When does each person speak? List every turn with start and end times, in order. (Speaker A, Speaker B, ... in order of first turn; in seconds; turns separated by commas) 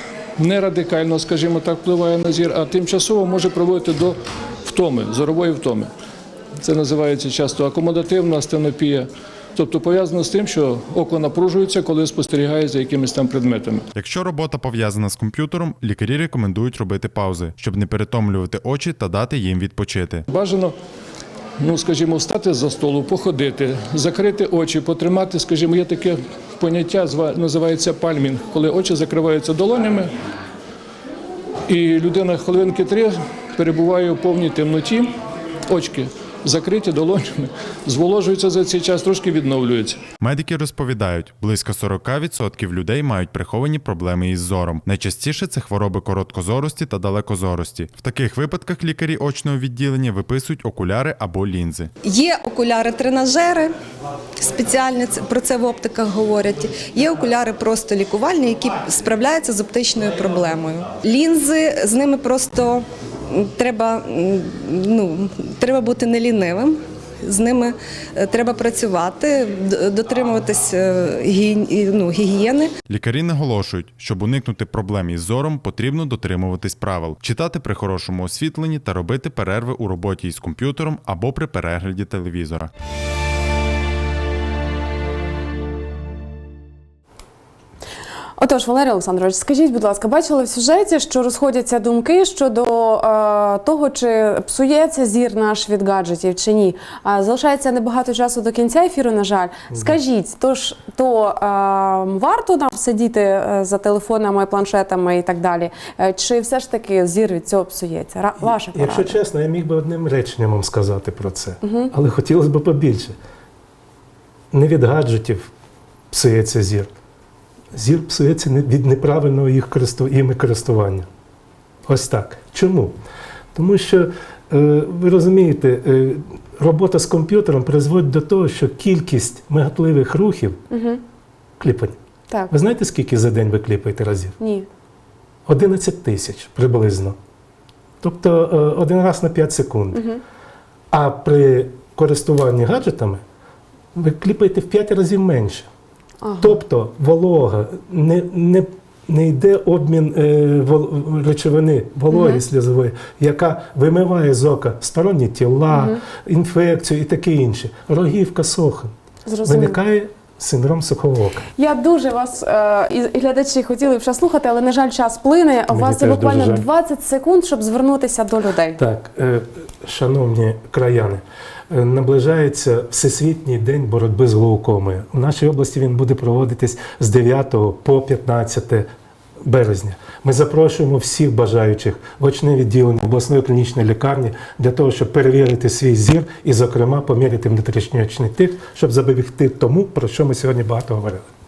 Speaker A: 0.4-5.9, Speaker A: 6.6-13.9, Speaker B: 13.9-20.2, Speaker A: 20.3-20.7, Speaker A: 21.6-30.1, Speaker A: 31.7-35.1, Speaker A: 35.7-40.0, Speaker B: 40.2-51.9, Speaker C: 52.0-53.7, Speaker C: 54.4-72.7, Speaker B: 72.9-82.7, Speaker D: 88.4-109.2, Speaker E: 99.7-100.0, Speaker E: 108.4-113.2, Speaker D: 111.6-111.9, Speaker E: 114.5-115.5, Speaker E: 116.1-116.9, Speaker E: 117.7-121.1, Speaker E: 121.8-123.0, Speaker E: 123.5-130.6, Speaker D: 130.7-131.0, Speaker E: 131.6-132.0, Speaker E: 132.5-134.3, Speaker D: 134.4-134.7, Speaker E: 135.4-137.2, Speaker E: 138.0-140.1, Speaker D: 139.9-140.2, Speaker E: 140.9-143.2, Speaker E: 143.9-145.7, Speaker D: 146.2-146.6, Speaker E: 146.4-158.9, Speaker D: 152.1-152.4, Speaker D: 155.7-156.0, Speaker D: 159.3-159.8, Speaker E: 159.4-161.5, Speaker D: 161.6-168.8, Speaker E: 165.7-166.7, Speaker E: 168.8-178.9, Speaker E: 179.4-191.3